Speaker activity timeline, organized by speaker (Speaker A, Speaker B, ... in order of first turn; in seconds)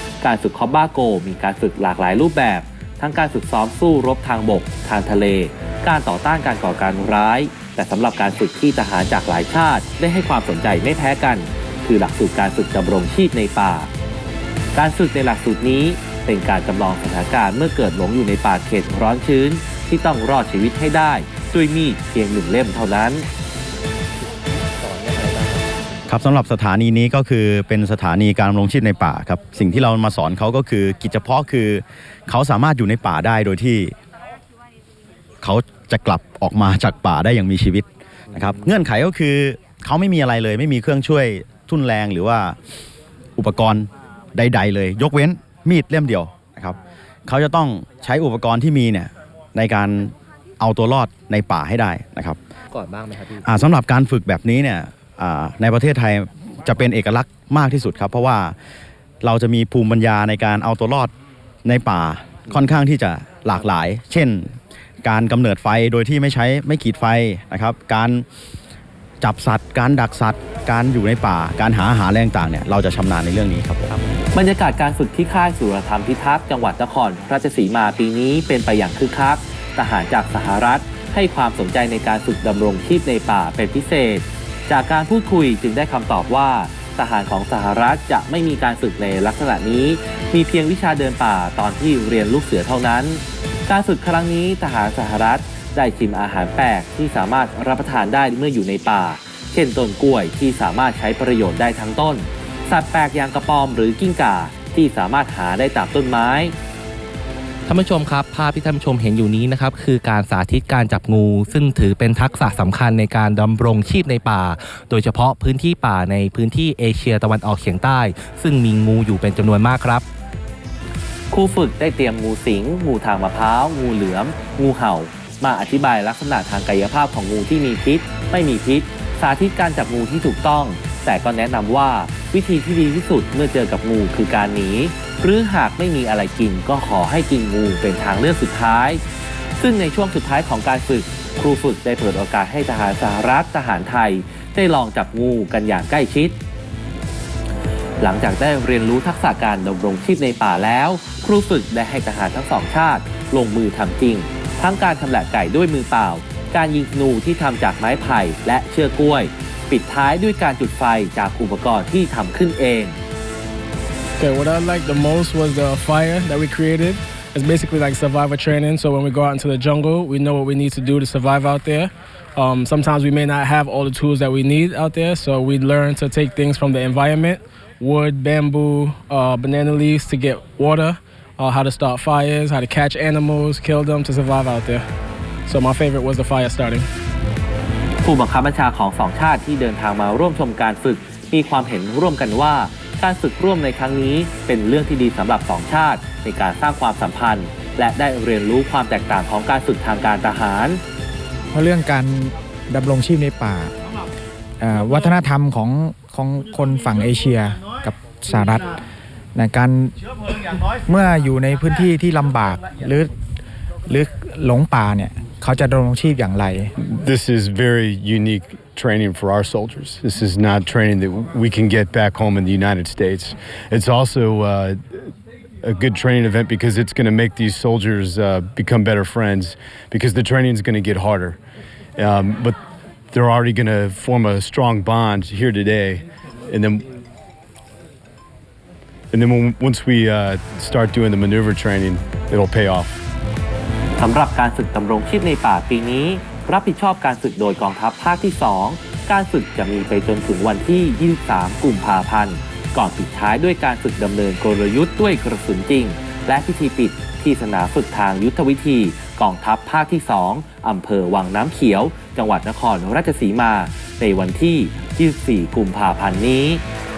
Speaker A: 0.2-13.9, 14.8-23.3, 74.3-106.6, 121.3-139.0, 139.6-146.4, 148.0-163.0, 188.0-200.8, 244.0-266.6
Speaker B: 24.8-25.6, 52.7-53.4, 107.7-120.0
Speaker C: 26.1-34.0, 35.4-42.6, 43.4-52.4, 53.4-58.5, 59.2-61.1, 61.6-64.5, 65.0-68.2, 69.2-73.9
Speaker D: 164.2-184.9, 185.5-186.9
Speaker E: 201.5-203.7, 204.6-208.8, 209.3-209.9, 210.5-213.1, 213.9-216.7
Speaker F: 216.8-224.8, 225.6-231.4, 232.0-232.6, 233.1-236.8, 239.1-243.0